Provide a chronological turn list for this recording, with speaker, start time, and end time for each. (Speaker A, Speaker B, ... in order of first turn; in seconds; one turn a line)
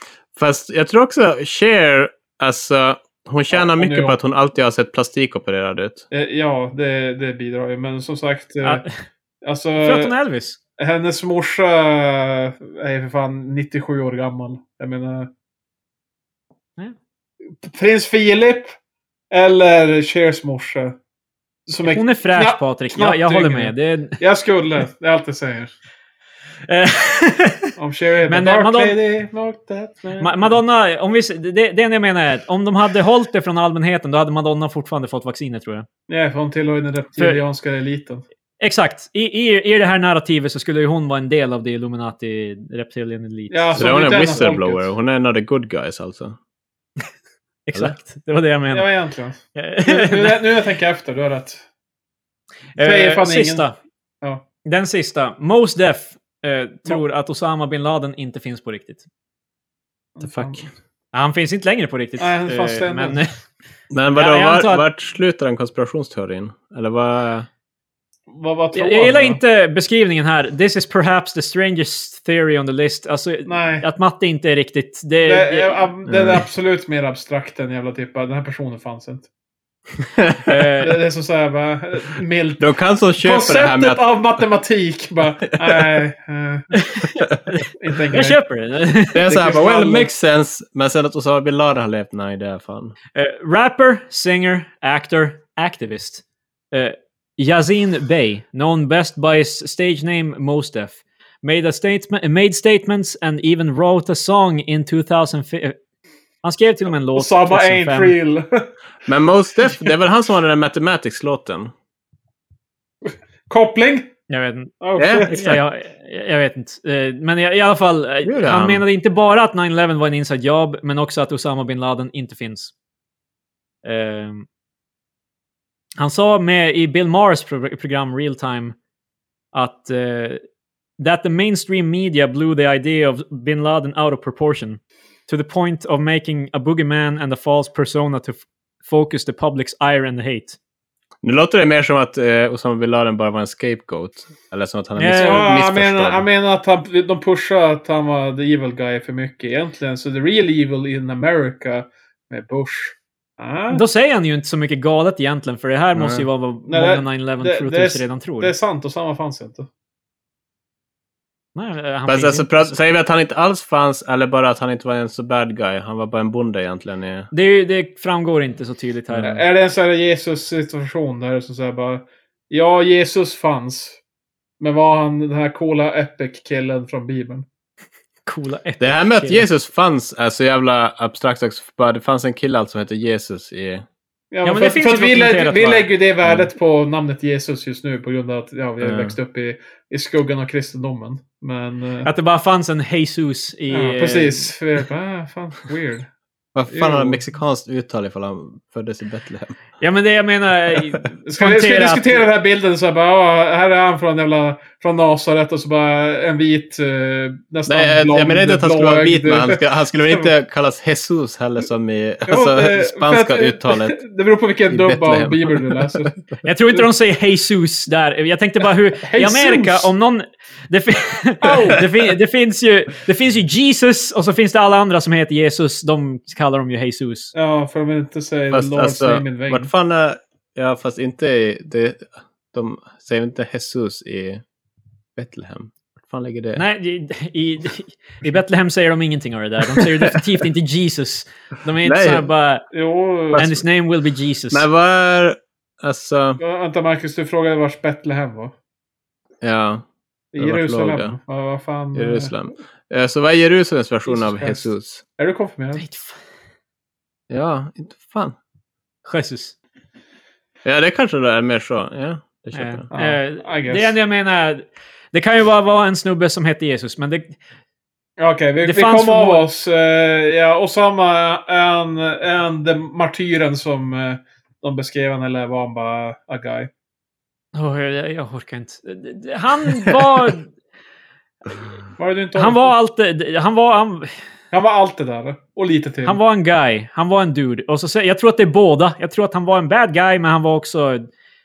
Speaker A: 0.4-6.0
Speaker B: 3.5-4.2
Speaker B: 6.1-8.8
Speaker B: 9.4-10.1
Speaker C: 9.8-10.6
Speaker B: 10.8-15.3
Speaker B: 17.6-18.7
Speaker B: 19.3-21.0
Speaker B: 21.7-25.7
Speaker C: 21.9-24.2
Speaker C: 26.7-27.7
Speaker B: 27.8-30.5
Speaker C: 28.3-29.0
Speaker C: 30.2-35.9
Speaker B: 36.1-38.2
Speaker C: 38.6-43.8
Speaker B: 43.5-44.9
Speaker A: 43.8-46.4
Speaker C: 47.7-48.9
Speaker B: 48.7-51.6
Speaker C: 49.5-50.5
Speaker C: 52.8-53.8
Speaker B: 52.8-53.7
Speaker C: 54.6-59.0
Speaker B: 60.2-60.7
Speaker A: 60.2-60.6
Speaker C: 61.1-63.3
Speaker B: 62.2-63.2
Speaker A: 63.9-67.5
Speaker C: 64.1-64.8
Speaker B: 68.3-69.4
Speaker C: 68.7-75.8
Speaker B: 73.5-73.9
Speaker B: 75.2-79.3
Speaker A: 76.1-76.4
Speaker A: 80.2-80.5
Speaker C: 80.5-81.0
Speaker B: 80.8-82.7
Speaker A: 82.6-84.0
Speaker B: 83.2-86.8
Speaker C: 86.8-89.3
Speaker B: 87.8-88.4
Speaker A: 89.1-93.0
Speaker B: 89.3-90.1
Speaker C: 93.2-105.8
Speaker C: 106.4-108.2
Speaker B: 107.2-108.7
Speaker A: 109.1-111.7
Speaker B: 113.5-114.1
Speaker C: 114.3-122.7
Speaker B: 114.8-115.4
Speaker A: 115.0-115.6
Speaker A: 118.2-118.8
Speaker C: 123.8-124.5
Speaker C: 126.0-128.8
Speaker C: 129.5-130.4
Speaker C: 131.0-140.6
Speaker A: 141.2-146.2
Speaker C: 145.0-145.5
Speaker B: 145.2-153.8
Speaker C: 153.7-158.6
Speaker A: 155.9-156.3
Speaker B: 156.7-159.7
Speaker C: 161.6-162.7
Speaker A: 162.1-167.3
Speaker C: 167.3-169.4
Speaker A: 169.1-169.4
Speaker B: 169.2-174.0
Speaker B: 174.6-177.5
Speaker C: 178.3-179.4
Speaker A: 178.8-183.8
Speaker B: 184.3-192.1
Speaker C: 184.4-185.9
Speaker A: 188.8-189.2
Speaker C: 192.1-194.5
Speaker B: 193.7-196.1
Speaker A: 196.6-199.6
Speaker B: 196.7-197.2
Speaker C: 199.8-202.2
Speaker B: 201.3-210.3
Speaker A: 207.7-214.0
Speaker B: 212.2-216.2
Speaker A: 214.7-216.4
Speaker C: 216.4-227.3
Speaker B: 219.0-219.9
Speaker B: 221.4-221.8
Speaker B: 227.3-229.7
Speaker A: 228.5-234.4
Speaker A: 235.2-236.6
Speaker C: 236.6-242.7
Speaker A: 239.6-240.2
Speaker A: 241.8-242.3
Speaker B: 242.7-243.5
Speaker A: 243.3-243.6
Speaker C: 243.4-244.6
Speaker A: 244.5-246.4
Speaker B: 246.4-248.5
Speaker A: 249.4-249.8
Speaker B: 250.3-252.3
Speaker A: 250.4-251.2
Speaker A: 251.9-255.0
Speaker B: 254.1-255.8
Speaker C: 255.8-256.2
Speaker A: 257.3-258.4
Speaker C: 259.1-259.6
Speaker A: 260.6-262.9
Speaker C: 262.5-267.4
Speaker B: 262.9-263.9
Speaker B: 268.2-276.7
Speaker C: 268.6-269.4
Speaker C: 277.6-280.5
Speaker B: 282.0-282.8
Speaker C: 282.4-284.1
Speaker B: 284.5-286.2
Speaker C: 286.1-291.1